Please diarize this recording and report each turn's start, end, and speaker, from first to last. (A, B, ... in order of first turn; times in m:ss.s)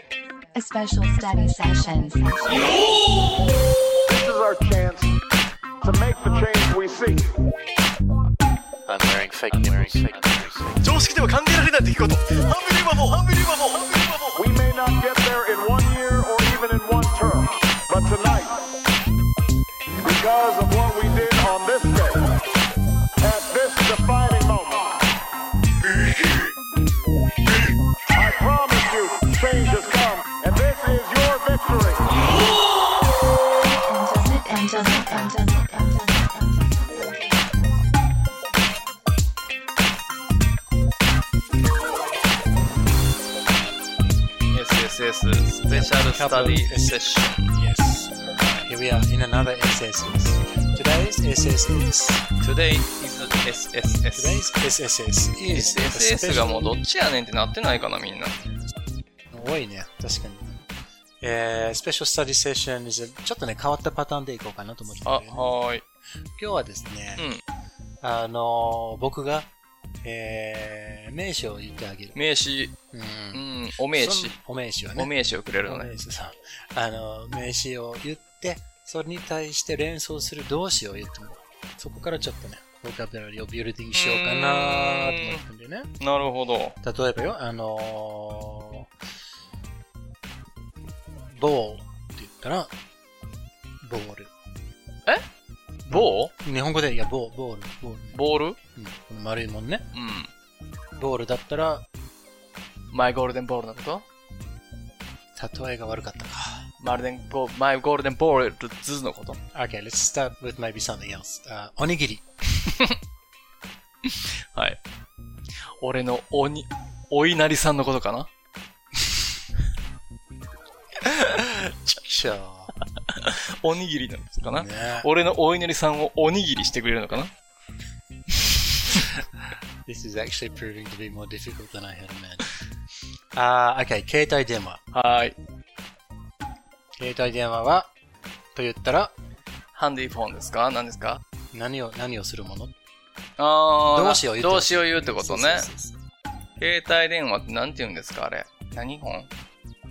0:00.5-0:02.8 A
0:04.1-0:05.2 B
0:05.8-0:07.3 B
0:08.9-0:10.7 C
0:08.9-0:14.3 D
0:10.8-0:13.8 E
0:14.3-0:18.7 B
0:20.0-0:22.4 B
0:23.2-0:25.0 B
0:28.1-0:32.1 B
0:33.6-0:37.9 A
0:44.5-0:47.5 E
0:45.7-0:52.2 C
0:52.4-0:54.4 E
0:54.1-0:56.9 C
0:55.5-0:58.4 E
0:59.3-1:00.6 C
1:01.2-1:05.6 C
1:05.0-1:05.8 E
1:06.4-1:07.3 C
1:07.2-1:07.4 E
1:08.0-1:09.5 C
1:10.0-1:12.2 C
1:12.1-1:12.8 E
1:12.9-1:26.0 C
1:13.3-1:14.4 E
1:14.9-1:15.9 E
1:23.9-1:25.4 E
1:26.0-1:26.8 E
1:26.8-1:28.9 C
1:31.3-1:32.7 C
1:33.8-1:34.3 C
1:35.8-1:36.3 E
1:35.9-1:39.8 C
1:38.1-1:38.6 E
1:39.9-1:40.3 E
1:41.0-1:41.8 C
1:42.9-1:44.1 E
1:45.3-1:46.7 C
1:46.8-1:49.4 E
1:49.5-1:52.2 C
1:54.0-1:54.8 E
1:55.8-1:58.3 E
2:01.1-2:02.7 C
2:03.1-2:07.3 E
2:04.5-2:05.1 C
2:09.8-2:12.5 C
2:13.3-2:14.8 C
2:14.9-2:15.4 E
2:17.0-2:17.9 C
2:18.5-2:19.1 C
2:19.7-2:21.2 E
2:21.5-2:22.7 C
2:23.4-2:25.7 E
2:23.8-2:25.9 C
2:26.6-2:29.3 E